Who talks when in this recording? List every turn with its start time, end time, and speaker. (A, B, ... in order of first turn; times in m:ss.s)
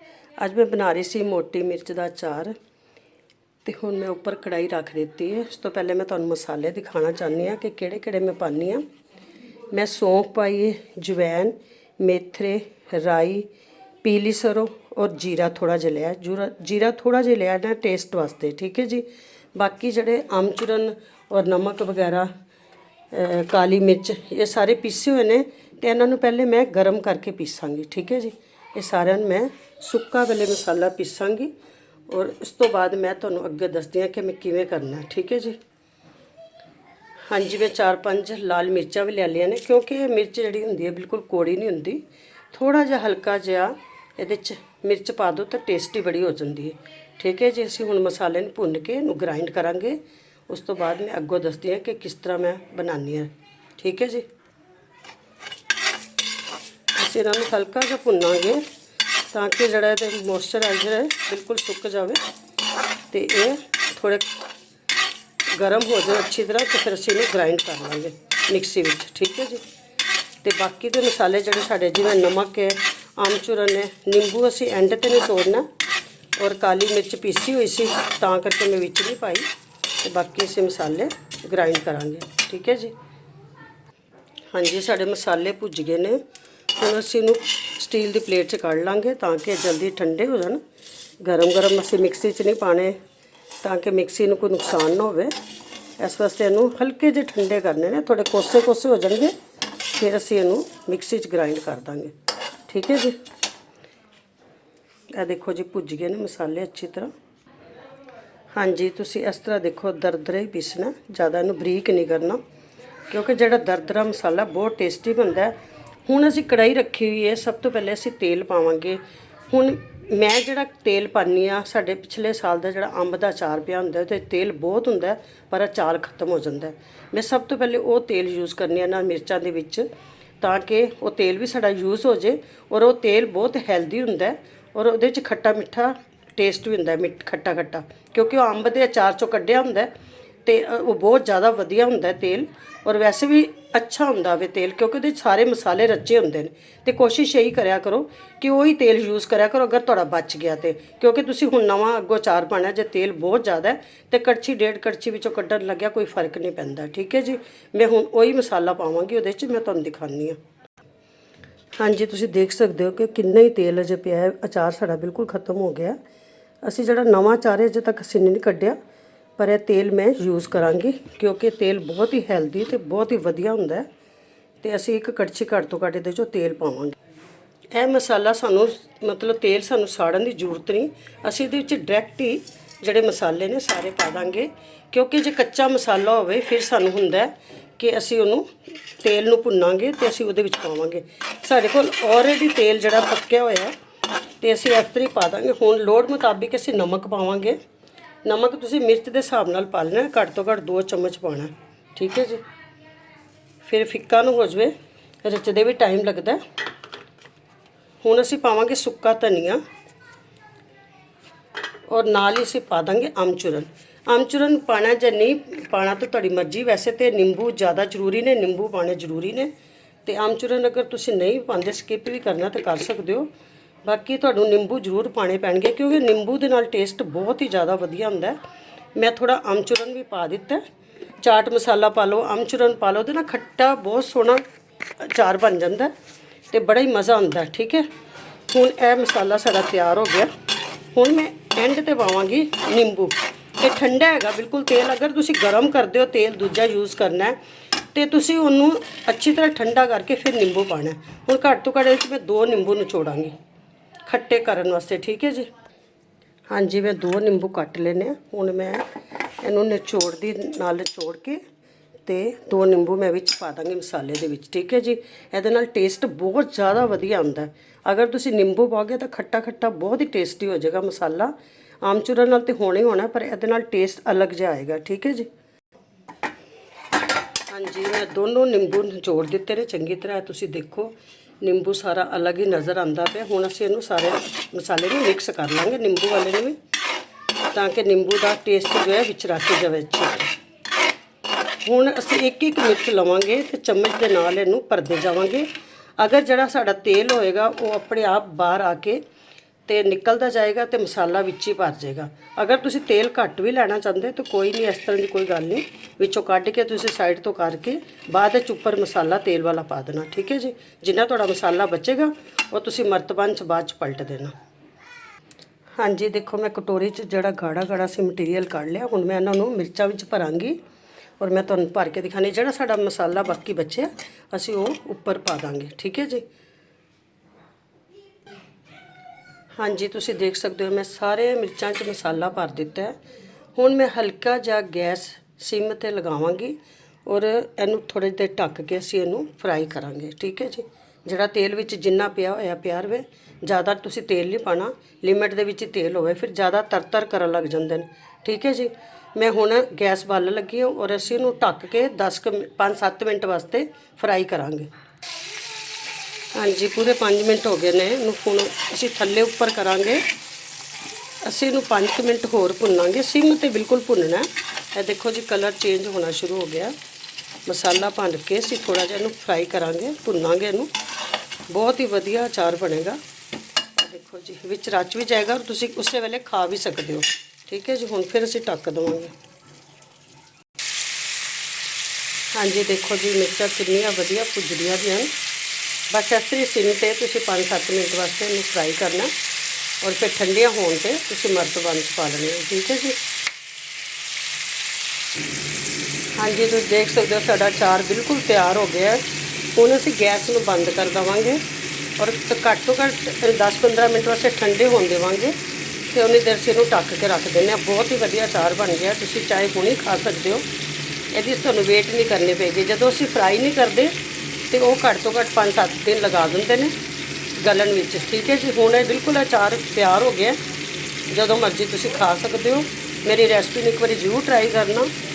0:00.4-0:02.5 A
0:03.6-0:08.8 A
0:09.7-0:13.5 A
0:14.0-0:22.3 A
0:23.1-0:31.5 A
0:32.1-0:35.6 A
0:37.3-0:42.0 A
0:42.5-0:54.2 A
0:57.0-0:58.6 A
0:59.3-1:02.2 A
1:03.1-1:04.3 A
1:05.5-1:09.6 A
1:10.4-1:15.6 A
1:16.4-1:19.5 A
1:20.0-1:22.9 A
1:24.5-1:26.2 A
1:26.8-1:30.6 A
1:31.2-1:33.0 A
1:33.6-1:35.3 A
1:36.0-1:39.3 A
1:39.9-1:42.1 A
1:42.7-1:43.2 A
1:45.1-1:47.1 A
1:48.5-1:52.4 A
1:53.1-1:55.5 A
1:56.1-2:09.8 A
2:10.4-2:19.9 A
2:20.4-2:40.4 A
2:41.8-2:46.0 A
2:46.6-2:48.8 A
2:49.4-2:53.9 A
2:54.6-2:57.0 A
2:57.7-3:08.5 A
3:09.0-3:13.7 A
3:14.4-3:17.6 A
3:18.2-3:22.4 A
3:23.6-3:24.7 A
3:25.2-3:26.4 A
3:28.0-3:29.6 A
3:31.9-3:39.5 A
3:40.0-3:43.3 A
3:43.8-3:48.4 A
3:49.0-3:50.6 A
3:51.2-3:54.4 A
3:55.0-3:55.9 A
3:56.5-3:57.8 A
3:58.5-4:00.3 A
4:00.9-4:07.4 A
4:07.9-4:13.3 A
4:14.1-4:15.5 A
4:16.5-4:18.8 A
4:19.4-4:21.4 A
4:22.0-4:35.3 A
4:37.5-4:46.6 A
4:47.5-4:50.3 A
4:51.6-4:59.0 A
4:59.7-5:14.3 A
5:15.8-5:20.6 A
5:21.2-5:26.2 A
5:29.6-5:32.9 A
5:33.6-5:54.7 A
5:56.3-6:00.0 A
6:01.2-6:06.7 A
6:07.4-6:10.7 A
6:11.5-6:13.0 A
6:13.8-6:19.1 A
6:22.3-6:25.1 A
6:25.9-6:29.1 A
6:29.8-6:33.0 A
6:36.1-6:39.0 A
6:39.5-6:41.4 A
6:42.0-6:45.3 A
6:45.9-6:50.4 A
6:51.1-6:53.9 A
6:54.5-6:56.7 A
6:57.4-7:00.4 A
7:01.1-7:04.9 A